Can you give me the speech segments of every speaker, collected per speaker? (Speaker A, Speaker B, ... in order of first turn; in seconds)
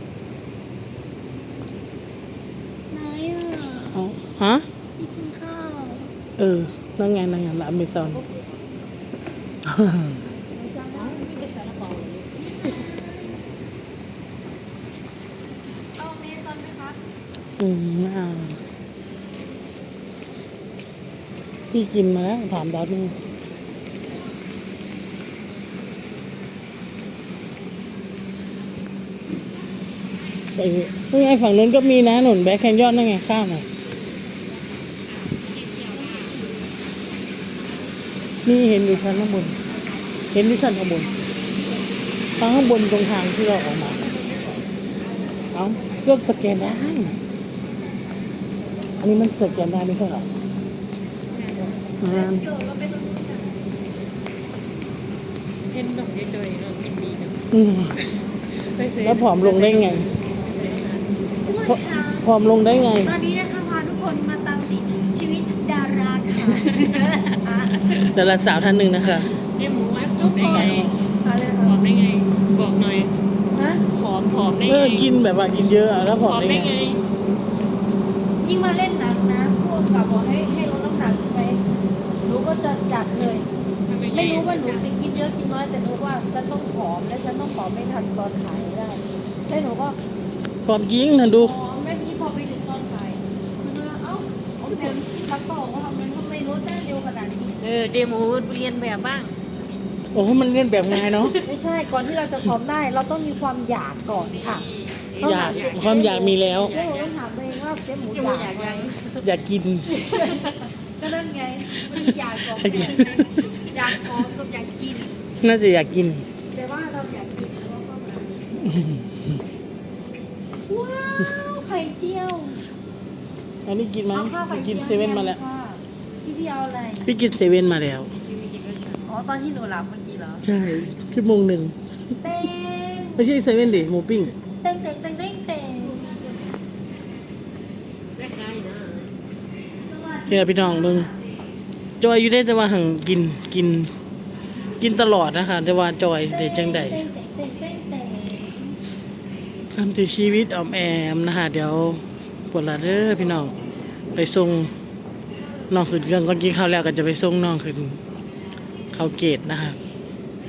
Speaker A: 2.9-4.0, 5.0-6.1, 10.4-11.6, 12.3-13.4, 16.0-17.0, 36.0-36.6, 39.6-40.3, 52.0-53.6, 61.4-68.1, 70.0-71.8, 73.5-73.8, 78.4-81.6, 82.2-83.5, 84.1-90.0, 91.3-97.6, 101.4-104.7, 105.2-108.9, 109.9-115.1, 116.5-118.5, 120.7-122.7, 124.1-127.1, 129.0-130.5, 132.2-133.3, 134.6-136.0, 139.8-141.2, 146.3-148.8
Speaker B: 3.9-4.7, 6.4-8.2, 9.7-10.2, 17.6-18.6, 21.7-23.2, 30.6-33.7, 38.5-39.6, 40.3-41.1, 42.4-44.0, 45.5-47.2, 49.0-50.3, 52.0-52.5, 57.5-58.0, 59.0-60.1, 61.7-63.1, 68.1-69.3, 70.5-70.9, 74.6-76.7, 90.7-91.5, 100.1-101.4, 105.2-106.7, 109.2-109.9, 112.6-113.5, 115.4-116.3, 123.7-125.4, 127.0-128.1, 130.4-131.8, 133.2-134.3, 140.3-141.1, 142.0-143.9, 144.8-147.1, 149.7-153.5, 154.2-154.7, 155.7-158.0, 158.9-159.8
Speaker C: 10.9-12.3, 35.2-36.4, 43.9-44.6, 51.3-51.9, 55.7-57.4, 58.0-61.2, 69.4-71.0, 71.6-73.1, 73.9-75.1, 76.2-77.0, 83.8-84.9, 94.6-95.0, 97.6-99.4, 100.9-101.5, 104.1-107.2, 108.1-109.3, 110.1-110.6, 112.6-113.5, 128.2-129.1, 135.8-136.5, 138.2-139.1